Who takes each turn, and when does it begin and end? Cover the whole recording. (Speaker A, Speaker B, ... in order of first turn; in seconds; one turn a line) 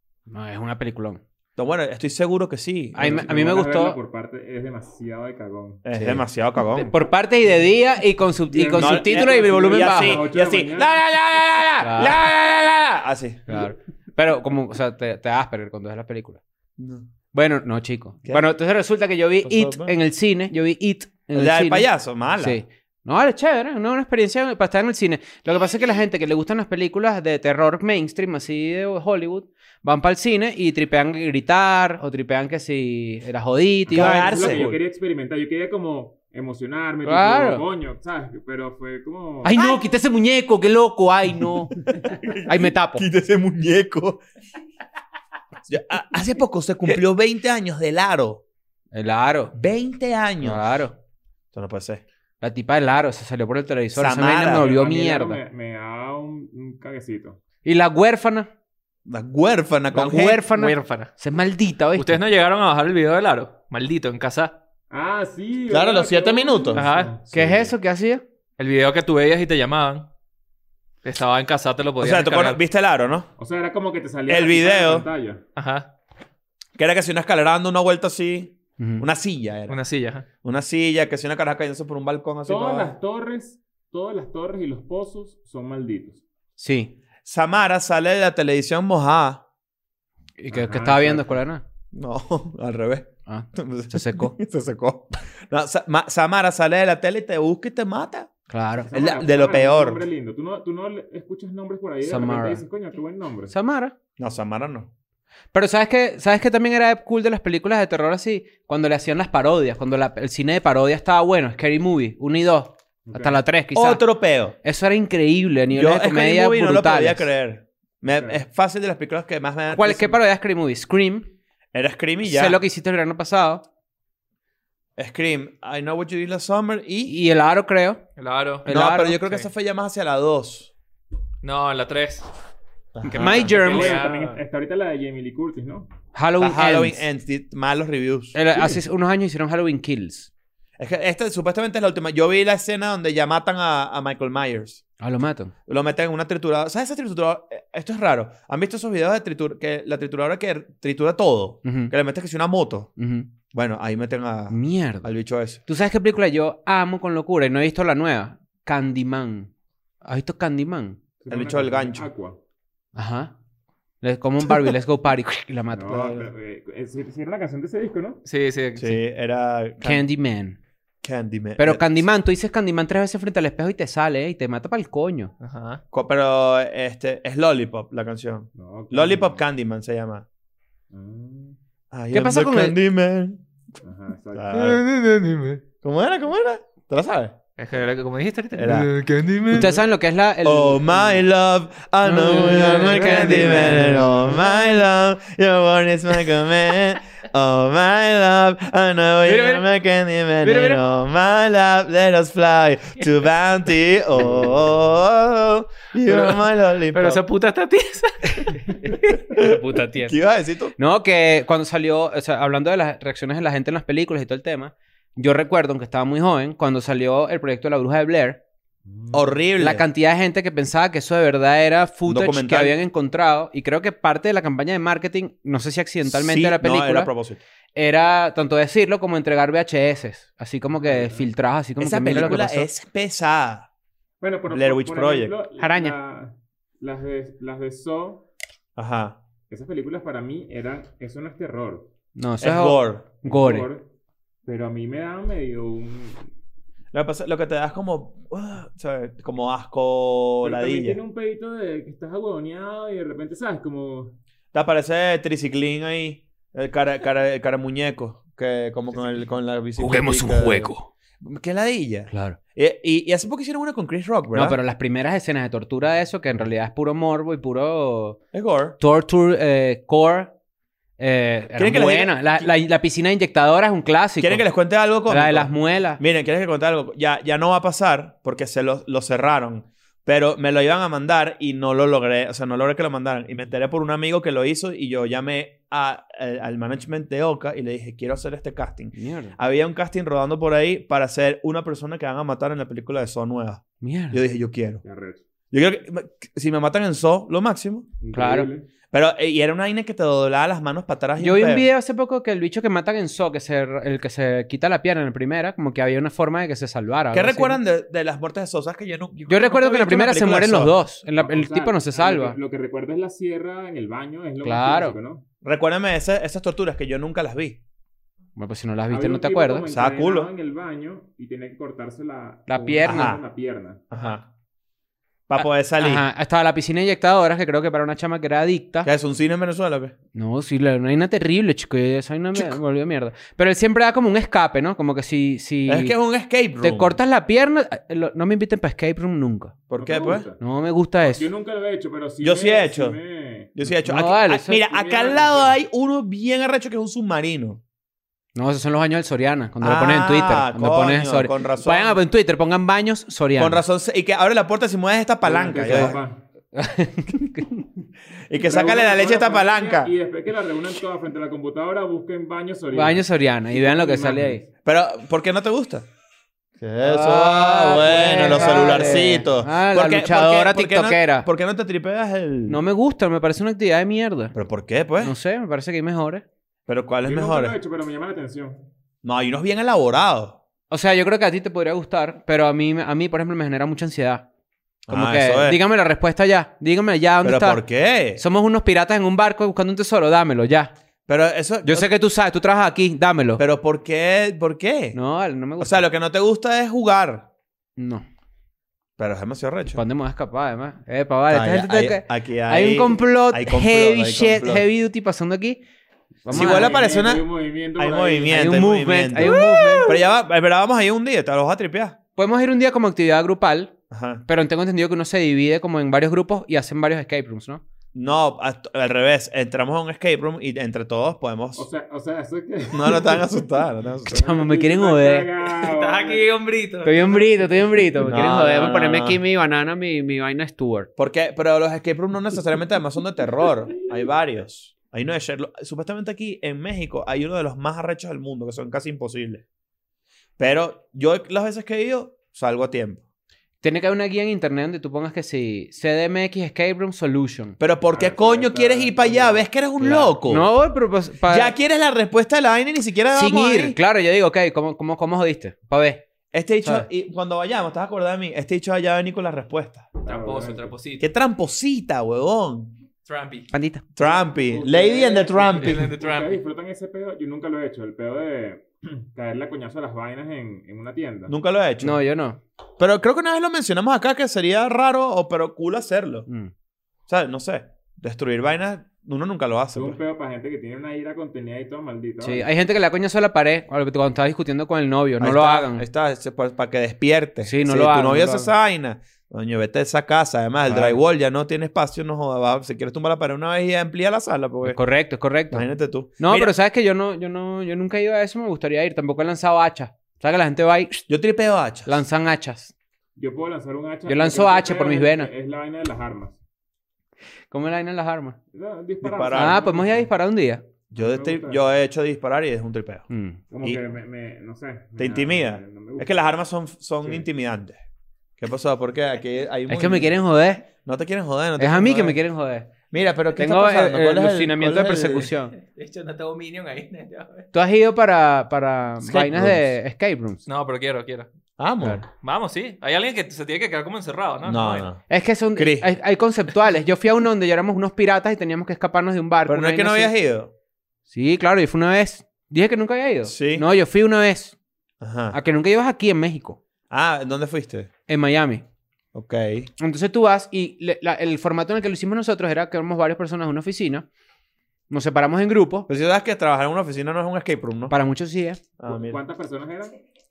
Speaker A: 0.3-1.2
Speaker B: 1.6-3.3
Speaker A: 2.9-4.0
Speaker C: 3.0-5.8
Speaker B: 5.8-6.9
Speaker A: 5.9-10.2
Speaker C: 8.5-11.0
Speaker B: 8.7-13.5
Speaker A: 11.8-12.2
Speaker A: 13.5-16.4
Speaker B: 16.8-17.1
Speaker A: 17.3-34.7
Speaker B: 19.4-19.9
Speaker B: 21.3-22.6
Speaker B: 33.9-34.8
Speaker C: 33.9-39.6
Speaker A: 37.0-37.6
Speaker A: 39.4-41.7
Speaker B: 41.9-44.2
Speaker A: 42.4-43.0
Speaker B: 45.7-48.4
Speaker A: 48.9-49.5
Speaker B: 49.5-50.7
Speaker A: 50.4-50.9
Speaker B: 51.5-52.0
Speaker A: 52.4-55.4
Speaker B: 53.9-54.7
Speaker C: 54.5-57.4
Speaker A: 57.6-58.5
Speaker B: 59.0-60.4
Speaker A: 59.9-62.2
Speaker D: 60.5-61.1
Speaker D: 61.9-64.6
Speaker C: 64.9-67.2
Speaker B: 65.7-67.7
Speaker D: 66.7-67.2
Speaker A: 67.3-68.2
Speaker D: 68.6-70.1
Speaker D: 71.0-72.6
Speaker B: 72.0-73.3
Speaker C: 73.4-75.4
Speaker B: 74.3-75.1
Speaker D: 75.5-75.9
Speaker B: 76.8-79.8
Speaker A: 78.8-79.0
Speaker D: 79.7-80.2
Speaker B: 80.4-83.0
Speaker C: 82.5-86.2
Speaker A: 86.6-86.9
Speaker B: 87.2-89.4
Speaker A: 90.4-91.6
Speaker C: 90.5-91.4
Speaker B: 91.9-98.3
Speaker A: 93.3-94.3
Speaker A: 98.5-98.9
Speaker C: 98.8-103.5
Speaker B: 98.9-100.0
Speaker A: 102.0-102.6
Speaker A: 103.5-103.9
Speaker B: 104.2-104.9
Speaker A: 105.5-114.0
Speaker C: 113.1-113.4
Speaker B: 113.7-114.5
Speaker A: 114.6-117.3
Speaker B: 115.7-120.2
Speaker C: 118.0-118.4
Speaker A: 119.7-121.3
Speaker B: 121.7-122.6
Speaker A: 122.2-123.6
Speaker B: 125.0-127.2
Speaker A: 127.0-128.0
Speaker D: 128.2-128.7
Speaker A: 128.6-129.2
Speaker B: 128.7-130.7
Speaker D: 131.4-132.3
Speaker B: 132.9-133.6
Speaker D: 133.1-134.4
Speaker A: 133.1-134.0
Speaker C: 133.4-135.9
Speaker A: 136.1-137.0
Speaker B: 136.4-138.4
Speaker A: 138.3-140.3
Speaker B: 140.8-144.8
Speaker A: 145.0-145.5
Speaker B: 145.7-152.9
Speaker A: 151.6-151.9
Speaker A: 153.0-153.3
Speaker B: 153.5-155.6
Speaker A: 154.5-155.1
Speaker A: 155.7-159.5
Speaker A: 160.0-161.0
Speaker C: 161.2-162.4
Speaker B: 161.3-162.1
Speaker A: 162.9-163.3
Speaker A: 164.0-166.1
Speaker C: 165.7-168.2
Speaker B: 165.9-166.3
Speaker D: 168.2-169.0
Speaker B: 168.8-170.1
Speaker A: 169.8-170.6
Speaker B: 171.0-172.1
Speaker A: 171.6-175.3
Speaker D: 175.4-175.8
Speaker B: 175.9-180.2
Speaker C: 178.5-179.4
Speaker C: 180.9-181.6
Speaker B: 181.9-183.4
Speaker A: 182.1-182.8
Speaker C: 183.8-184.6
Speaker B: 184.3-184.8
Speaker D: 184.6-185.1
Speaker A: 185.2-185.6
Speaker B: 185.8-187.3
Speaker D: 187.6-189.8
Speaker B: 188.5-189.7
Speaker A: 189.4-191.2
Speaker B: 190.4-207.2
Speaker A: 192.0-194.3
Speaker D: 192.6-194.1
Speaker A: 199.3-199.6
Speaker A: 200.4-200.8
Speaker D: 206.1-208.6
Speaker A: 208.4-210.2
Speaker B: 209.1-210.7
Speaker A: 210.8-218.4
Speaker C: 218.8-219.4
Speaker B: 219.1-219.8
Speaker A: 219.6-227.1
Speaker B: 222.1-222.8
Speaker B: 226.0-227.4
Speaker A: 227.7-232.7
Speaker C: 230.8-231.3
Speaker B: 231.8-233.7
Speaker C: 234.2-238.3
Speaker B: 234.5-235.3
Speaker A: 235.6-235.9
Speaker B: 238.8-239.2
Speaker C: 239.5-241.9
Speaker A: 242.1-243.7
Speaker B: 242.4-243.1
Speaker C: 243.2-243.9
Speaker C: 244.4-246.3
Speaker B: 246.9-251.0
Speaker C: 250.4-254.2
Speaker B: 254.5-264.6
Speaker A: 259.8-260.9
Speaker A: 262.1-262.4
Speaker A: 264.3-268.2
Speaker B: 268.3-268.8
Speaker A: 268.8-270.3
Speaker A: 271.0-274.4
Speaker B: 271.6-272.5
Speaker B: 274.2-294.8
Speaker A: 275.1-276.0
Speaker A: 288.9-289.4
Speaker A: 293.8-294.2
Speaker C: 294.8-295.2
Speaker B: 295.5-297.9
Speaker C: 298.0-298.7
Speaker A: 298.1-298.5
Speaker B: 298.9-301.7
Speaker A: 301.2-307.6
Speaker B: 307.1-310.7
Speaker A: 309.3-312.4
Speaker C: 311.1-315.2
Speaker A: 314.4-314.9
Speaker B: 315.4-317.6
Speaker A: 318.4-319.7
Speaker C: 318.9-323.8
Speaker B: 319.7-320.3
Speaker A: 322.5-323.1
Speaker B: 322.8-323.2
Speaker B: 323.9-324.2
Speaker B: 325.3-326.1
Speaker A: 325.4-328.9
Speaker B: 328.8-329.9
Speaker A: 330.1-335.9
Speaker B: 332.3-332.6
Speaker B: 335.7-337.0
Speaker A: 336.6-339.5
Speaker B: 339.7-340.3
Speaker C: 339.8-340.4
Speaker A: 340.4-341.3
Speaker C: 341.0-343.5
Speaker B: 342.2-343.0
Speaker B: 343.6-347.6
Speaker A: 343.8-344.6
Speaker C: 344.6-345.6
Speaker A: 348.3-353.6
Speaker B: 349.6-352.0
Speaker B: 353.4-356.0
Speaker C: 355.2-356.2
Speaker A: 356.5-357.7
Speaker B: 358.3-359.9
Speaker C: 358.4-364.5
Speaker A: 362.7-364.4
Speaker B: 364.6-365.9
Speaker B: 366.6-372.6
Speaker A: 366.8-371.3
Speaker C: 367.8-369.1
Speaker A: 372.5-374.3
Speaker B: 374.3-375.1
Speaker A: 375.0-376.2
Speaker B: 376.7-377.6
Speaker C: 377.0-378.6
Speaker B: 379.0-380.4
Speaker A: 380.7-384.2
Speaker B: 384.9-385.6
Speaker A: 384.9-387.6
Speaker B: 387.2-388.2
Speaker A: 388.1-390.7
Speaker B: 391.1-391.9
Speaker A: 391.6-393.4
Speaker B: 393.4-395.0
Speaker A: 394.9-395.8
Speaker B: 395.6-397.3
Speaker A: 397.8-398.0
Speaker B: 399.0-399.8
Speaker A: 399.7-405.6
Speaker B: 401.3-404.6
Speaker C: 406.2-408.6
Speaker A: 406.2-406.7
Speaker B: 406.3-407.2
Speaker B: 407.8-412.0
Speaker A: 408.3-410.0
Speaker C: 409.2-409.8
Speaker A: 412.2-413.7
Speaker B: 413.9-414.2
Speaker A: 414.3-417.6
Speaker B: 417.9-421.6
Speaker C: 421.6-423.3
Speaker B: 422.7-424.2
Speaker C: 424.0-426.3
Speaker A: 424.1-425.3
Speaker D: 425.4-427.7
Speaker A: 426.8-430.9
Speaker B: 428.0-429.2
Speaker B: 431.0-439.4
Speaker B: 440.4-443.0
Speaker A: 443.6-447.6
Speaker B: 447.6-450.5
Speaker C: 447.9-449.5
Speaker A: 449.8-451.5
Speaker B: 451.3-453.8
Speaker A: 453.1-456.1
Speaker B: 456.3-459.9
Speaker A: 456.6-456.9
Speaker C: 460.0-460.7
Speaker D: 460.1-461.1
Speaker B: 461.0-462.8
Speaker D: 463.0-463.5
Speaker A: 463.5-463.8
Speaker B: 463.9-465.9
Speaker C: 464.0-471.3
Speaker D: 465.6-466.4
Speaker B: 471.3-472.0
Speaker A: 471.8-472.4
Speaker B: 472.8-476.3
Speaker B: 477.1-480.0
Speaker C: 479.7-482.5
Speaker A: 482.2-485.8
Speaker B: 485.2-494.8
Speaker A: 487.4-488.5
Speaker A: 490.6-491.0
Speaker A: 494.6-495.7
Speaker B: 495.5-496.5
Speaker A: 496.2-501.1
Speaker B: 501.1-502.0
Speaker A: 501.9-502.7
Speaker C: 503.1-506.4
Speaker A: 504.1-505.3
Speaker A: 507.5-508.4
Speaker C: 508.5-510.1
Speaker B: 509.0-509.6
Speaker A: 509.3-510.6
Speaker B: 510.9-513.1
Speaker C: 510.9-511.6
Speaker A: 513.1-513.4
Speaker C: 513.5-516.2
Speaker B: 515.0-517.8
Speaker C: 517.0-517.2
Speaker B: 518.4-520.2
Speaker A: 519.7-520.7
Speaker B: 520.8-522.2
Speaker A: 521.6-522.7
Speaker B: 522.9-525.3
Speaker A: 523.4-525.5
Speaker D: 525.5-527.5
Speaker A: 527.5-530.4
Speaker B: 529.0-529.7
Speaker D: 530.5-531.3
Speaker B: 531.6-532.0
Speaker D: 532.2-534.9
Speaker B: 534.4-535.0
Speaker A: 535.1-540.1
Speaker B: 535.5-535.9
Speaker B: 539.5-540.5
Speaker A: 541.1-544.5
Speaker B: 543.2-543.6
Speaker B: 545.0-545.4
Speaker A: 545.3-546.6
Speaker B: 546.9-547.9
Speaker A: 548.1-548.6
Speaker B: 549.1-549.7
Speaker A: 549.8-554.0
Speaker A: 554.9-555.9
Speaker B: 555.9-557.9
Speaker A: 557.9-558.6
Speaker B: 558.8-559.2
Speaker C: 558.9-560.0